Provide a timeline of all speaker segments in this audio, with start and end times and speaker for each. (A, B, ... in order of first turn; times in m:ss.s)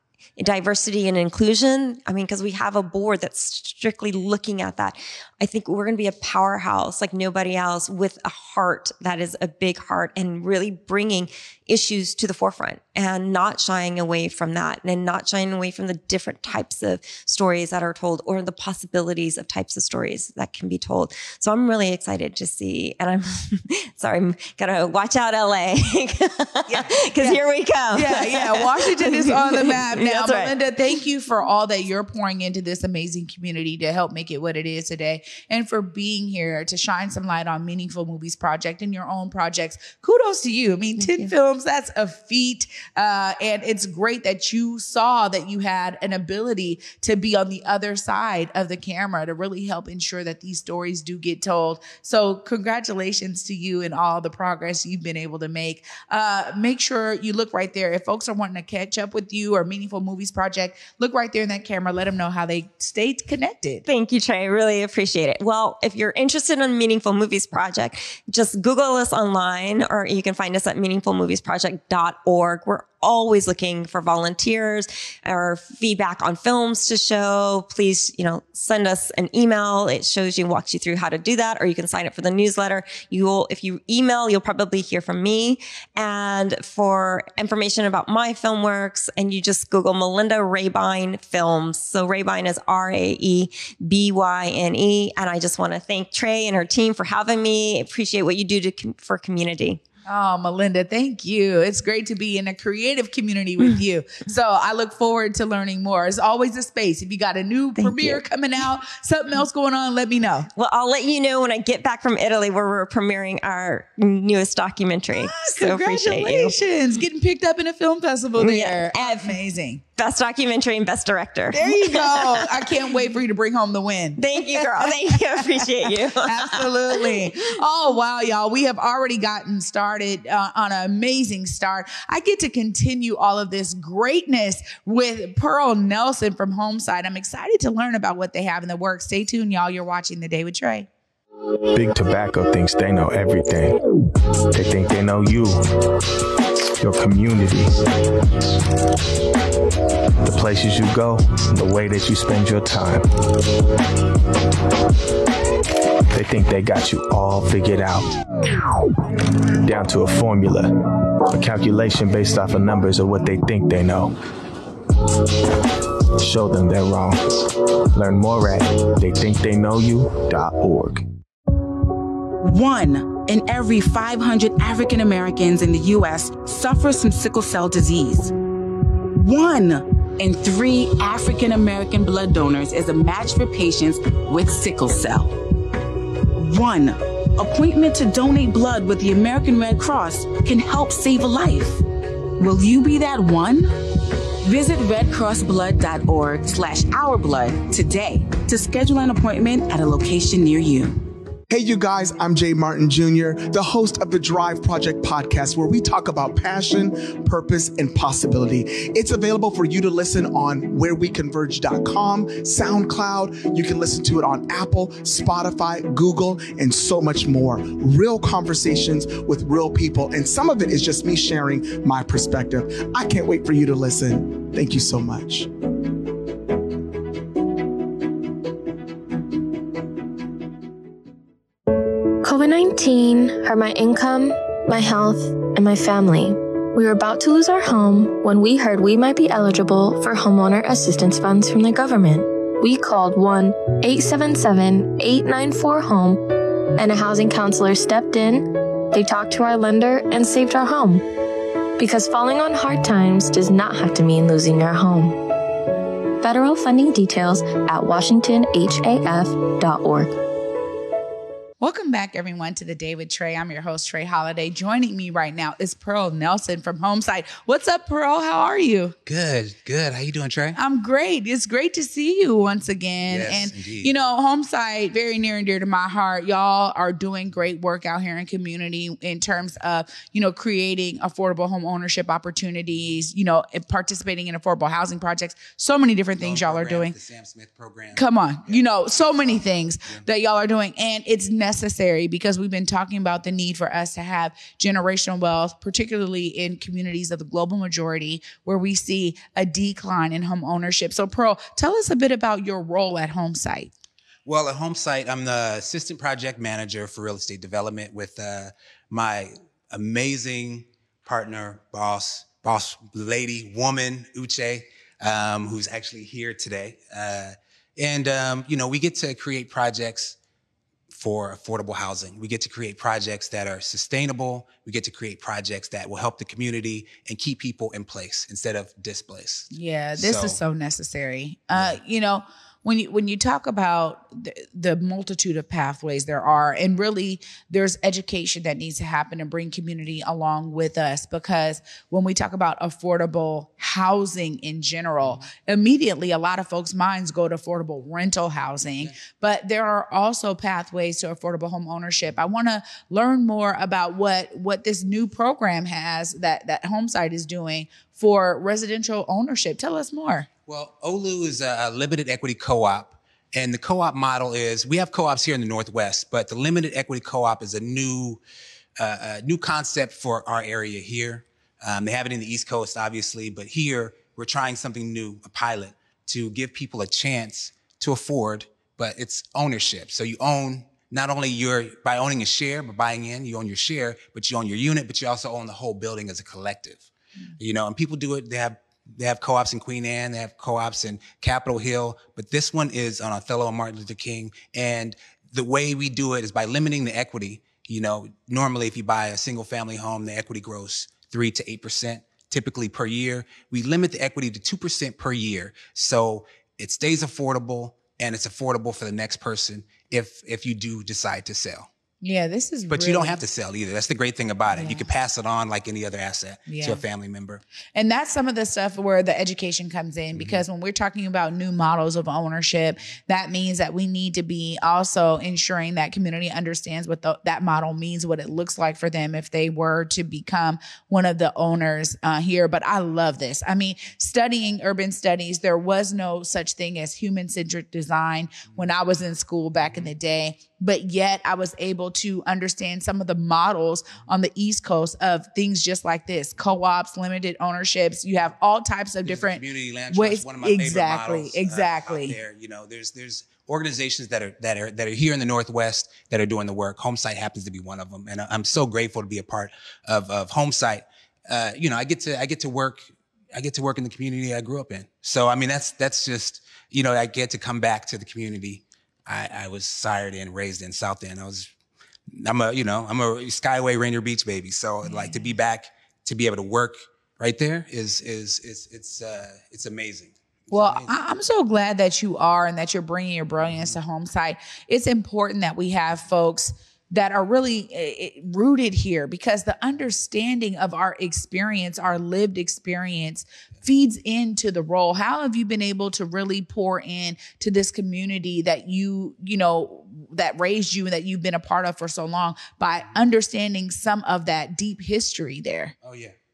0:00.4-0:30.5 A
0:26.7-0:27.4 B
0:27.9-1:03.8 B
0:41.0-0:41.3 A
1:03.9-1:39.8 A
1:40.1-1:50.5 B
1:47.8-1:48.2 A
1:50.6-1:56.5 A
1:55.2-1:59.8 B
1:58.4-1:59.4 A
2:00.0-2:02.7 A
2:01.5-2:20.9 B
2:04.2-2:07.3 A
2:21.7-2:23.8 C
2:24.5-2:25.6 C
2:26.8-2:27.8 C
2:30.2-2:33.0 C
2:36.1-2:38.1 C
2:39.6-2:40.7 C
2:41.2-2:44.2 C
2:46.2-2:47.2 C
2:47.9-2:51.0 C
2:52.4-2:58.3 D
2:59.1-3:05.3 D
3:06.4-3:11.8 D
3:12.4-3:13.7 D
3:14.4-3:21.0 D
3:21.5-3:45.5 E
3:52.2-4:11.0 F
4:11.8-4:15.2 F
4:16.2-4:20.2 F
4:21.6-4:28.9 B
4:29.0-4:30.6 G
4:30.6-4:46.9 B
4:33.1-4:33.9 G
4:46.2-4:48.6 G
4:47.9-5:03.7 B
4:49.3-4:50.0 G
5:04.2-5:20.2 G
5:20.9-5:30.4 G
5:29.5-6:00.3 B
5:45.0-5:45.3 G
6:00.5-6:08.2 G
6:08.8-6:26.9 G
6:27.4-6:51.7 G
6:52.0-6:53.2 B
6:52.7-6:57.4 G
6:54.5-6:54.8 B
6:56.5-6:56.8 B
6:57.8-7:32.2 B
7:00.1-7:00.4 G
7:29.0-7:51.5 G
7:52.1-8:00.9 G
7:54.8-7:55.3 B
8:00.5-8:25.7 B
8:03.5-8:03.7 G
8:25.8-8:26.1 G